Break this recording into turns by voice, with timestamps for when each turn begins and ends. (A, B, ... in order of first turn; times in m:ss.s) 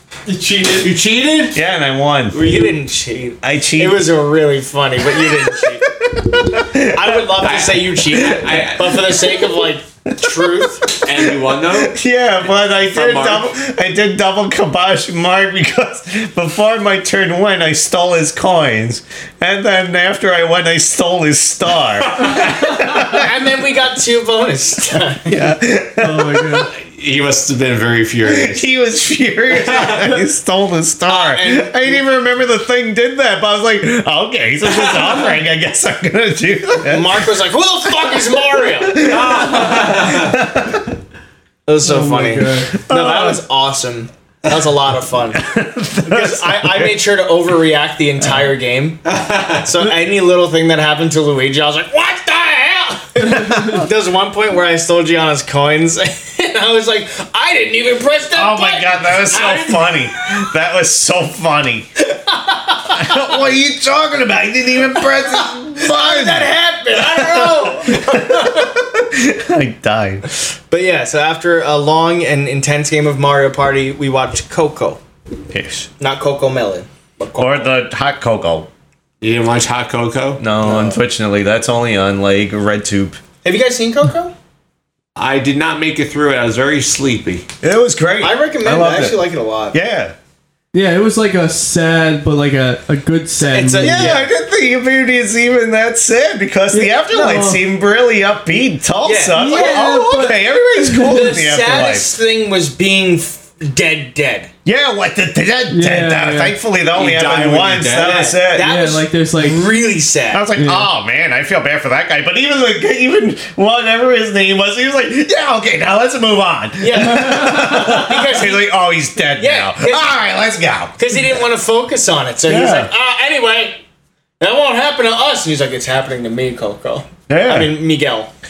0:00.2-0:00.9 A
0:00.8-0:01.6 B
0:01.5-0:02.4 C
0:02.3-0:05.9 D
0:03.4-0:04.0 C
0:05.2-0:07.2 C
0:06.8-0:10.9 D
0:07.4-0:09.2 B
0:10.2-0:23.3 C
0:11.0-0:12.0 B
0:12.7-0:13.5 B
0:22.2-0:22.4 B
0:22.8-0:25.3 D
0:25.2-0:26.7 C
0:26.0-0:26.7 A
0:26.7-0:28.6 B
0:28.2-0:37.3 C
0:29.6-0:29.9 B
0:31.1-0:32.0 D
0:36.8-0:39.2 D
0:38.0-0:40.9 C
0:39.0-0:40.4 B
0:41.6-0:45.4 D
0:41.8-0:42.8 A
0:42.7-0:43.4 C
0:45.3-0:47.0 C
0:46.0-0:49.0 D
0:49.0-0:49.7 B
0:49.6-1:00.4 D
0:53.3-0:53.8 C
0:58.3-1:01.9 C
1:02.1-1:03.4 D
1:02.9-1:10.2 C
1:05.4-1:08.7 D
1:10.7-1:15.0 D
1:15.5-1:15.9 C
1:16.0-1:17.7 D
1:17.4-1:18.7 C
1:19.2-1:20.4 B
1:20.4-1:23.2 C
1:20.6-1:21.0 D
1:23.4-1:24.3 D
1:25.2-1:27.4 B
1:27.6-1:29.2 C
1:28.2-1:29.8 D
1:29.7-1:30.1 C
1:30.7-1:34.1 A
1:33.4-1:34.3 D
1:33.8-1:42.2 C
1:36.7-1:37.6 A
1:39.0-1:40.0 D
1:39.3-1:41.2 A
1:41.0-1:44.5 D
1:44.6-1:48.7 C
1:45.7-1:46.6 A
1:46.9-1:48.3 B
1:47.9-1:50.5 D
1:48.5-1:49.6 A
1:50.3-2:01.4 C
1:50.5-1:50.9 A
1:56.8-1:58.7 D
1:57.0-1:58.0 A
1:59.3-2:00.1 D
2:01.0-2:03.8 D
2:02.4-2:02.9 C
2:04.4-2:08.3 D
2:07.3-2:07.8 C